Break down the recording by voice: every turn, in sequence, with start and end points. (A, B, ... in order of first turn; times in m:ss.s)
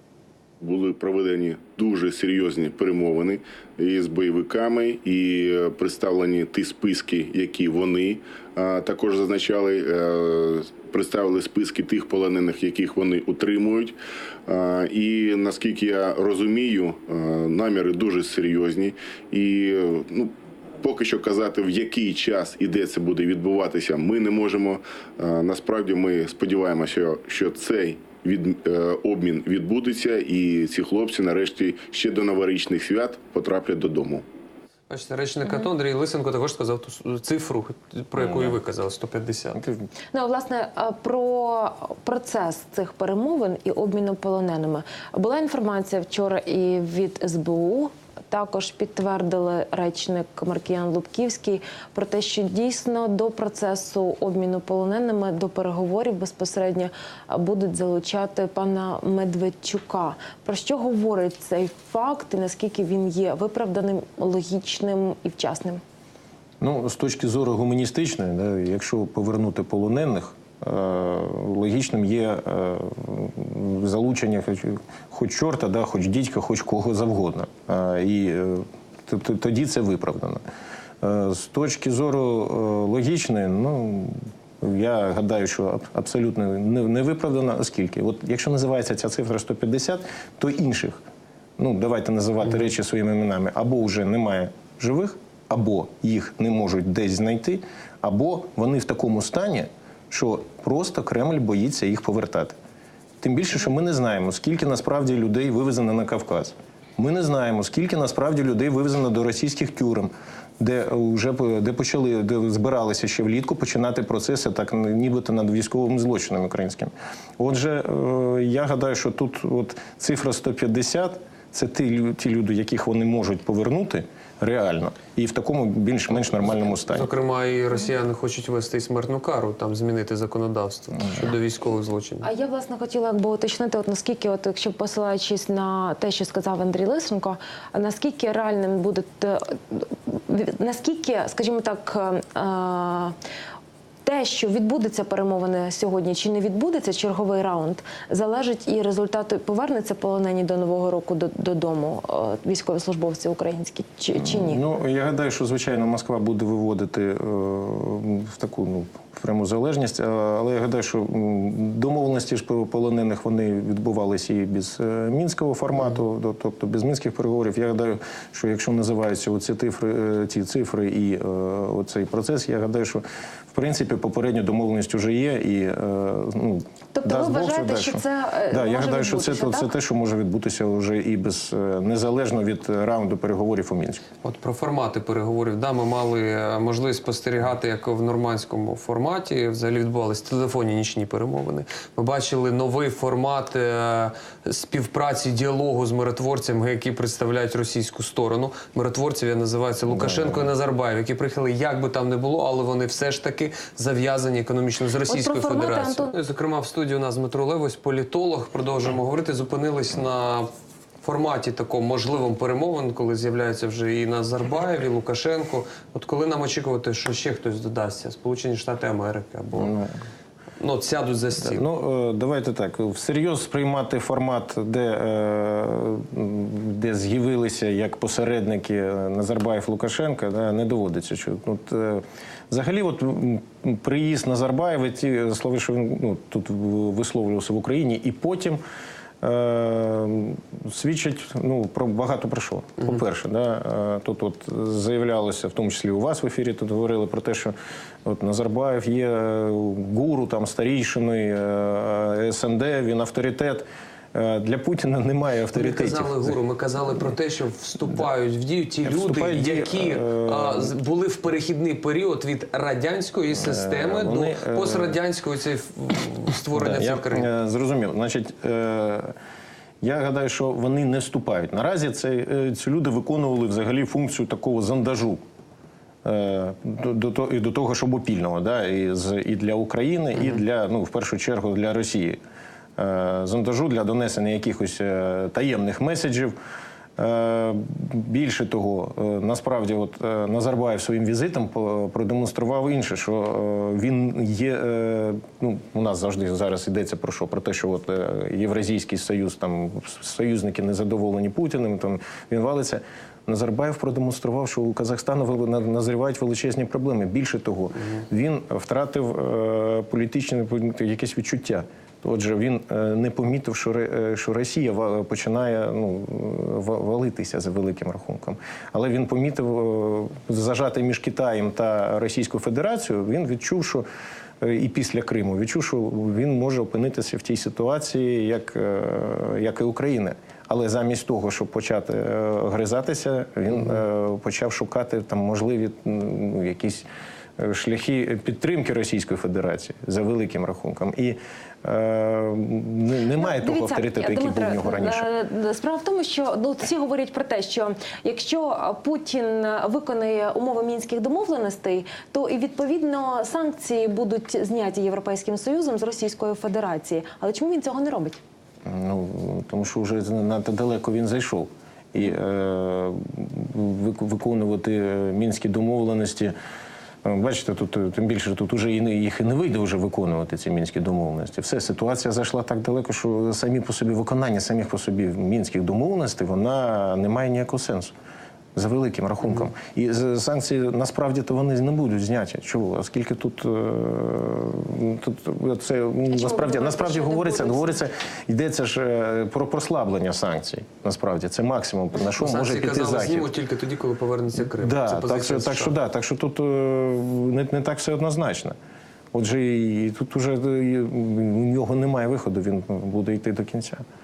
0:00.6-0:13.9 A
0:14.5-0:34.2 A
0:34.9-0:39.6 B
0:39.6-0:39.9 C
0:40.1-1:05.8 D
1:06.6-1:20.4 C
1:21.0-1:31.0 C
1:31.6-1:42.6 C
1:43.2-2:07.1 C
2:06.5-2:12.2 B
2:12.2-2:23.1 D
2:24.0-2:34.6 D
2:34.2-3:04.0 C
2:56.9-2:59.7 D
3:04.2-3:30.5 B
3:19.9-3:20.4 C
3:25.1-3:26.1 D
3:31.0-3:39.7 B
3:39.6-3:39.9 C
3:40.6-3:41.6 B
3:41.4-3:58.6 C
3:59.2-4:07.5 C
4:08.0-4:16.4 C
4:15.5-4:27.3 B
4:18.8-4:20.7 C
4:23.3-4:25.0 C
4:26.5-4:29.1 C
4:29.8-4:35.2 C
4:36.0-4:42.2 C
4:42.8-4:46.4 C
4:47.0-5:23.8 C
5:24.4-5:45.1 C
5:43.2-5:58.2 D
5:58.6-6:06.3 C
6:07.0-6:17.9 C
6:18.5-6:33.3 C
6:26.1-6:27.8 D
6:32.1-6:35.7 B
6:34.5-6:38.6 C
6:39.1-6:43.8 C